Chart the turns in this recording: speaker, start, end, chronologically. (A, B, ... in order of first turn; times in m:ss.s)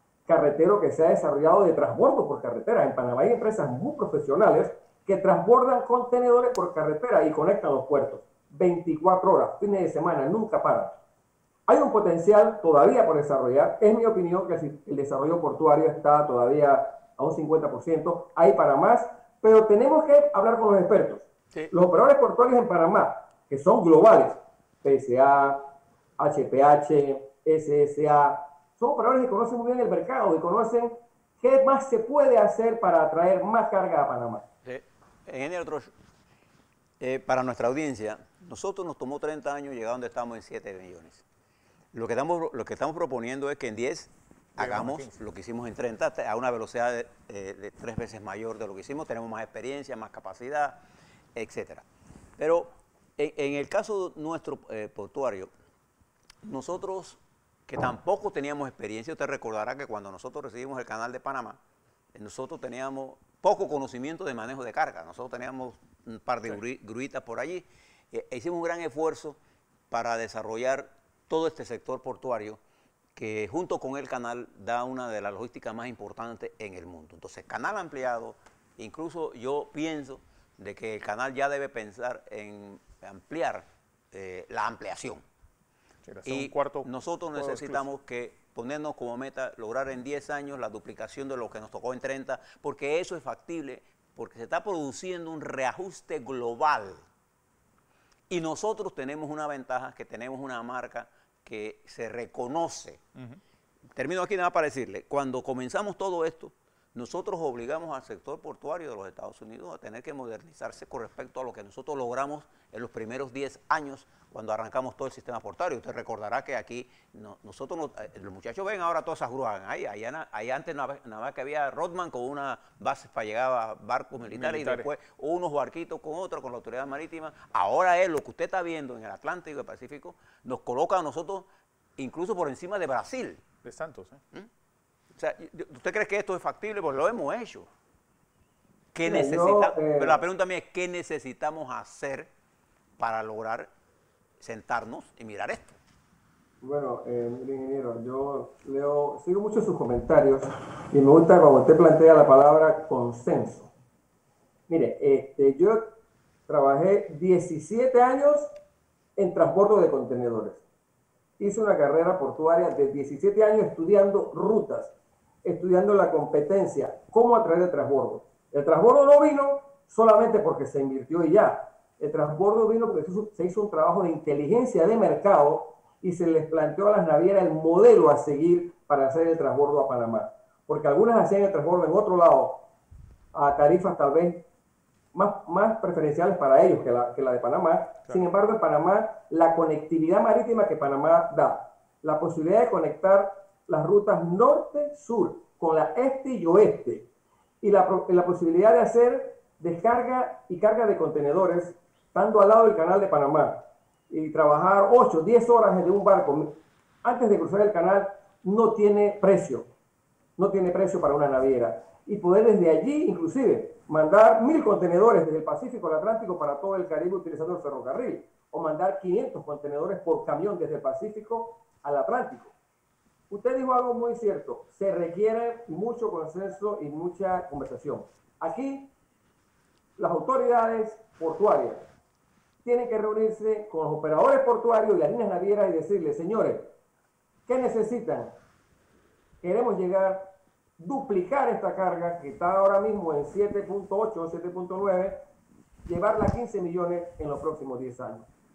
0:00.2-0:11.0 A
0:11.7-0:34.5 A
0:34.6-0:35.9 B
0:37.0-0:41.2 B
0:41.9-0:50.8 B
0:44.6-0:45.1 C
0:51.4-0:51.9 B
0:52.4-0:55.5 B
0:56.4-1:01.6 B
1:02.1-1:09.4 B
1:09.9-1:12.6 B
1:13.1-1:25.2 B
1:26.0-1:27.8 C
1:26.2-1:37.1 B
1:38.3-1:43.0 B
1:44.0-2:13.4 B
2:04.3-2:04.9 C
2:13.6-2:14.2 C
2:15.2-2:17.7 B
2:18.9-2:22.3 B
2:19.0-2:20.2 A
2:23.0-2:23.7 B
2:24.4-2:25.8 B
2:26.6-2:33.7 A
2:34.7-2:35.8 A
2:36.5-2:38.5 A
2:39.2-2:40.6 A
2:41.4-3:02.6 A
3:03.3-3:04.4 A
3:05.1-3:17.1 A
3:17.6-3:29.7 A
3:30.4-3:42.5 A
3:43.3-3:48.9 A
3:50.0-3:51.9 A
3:52.6-3:56.7 A
3:57.5-3:58.4 A
3:59.4-4:05.2 A
4:05.9-4:08.3 A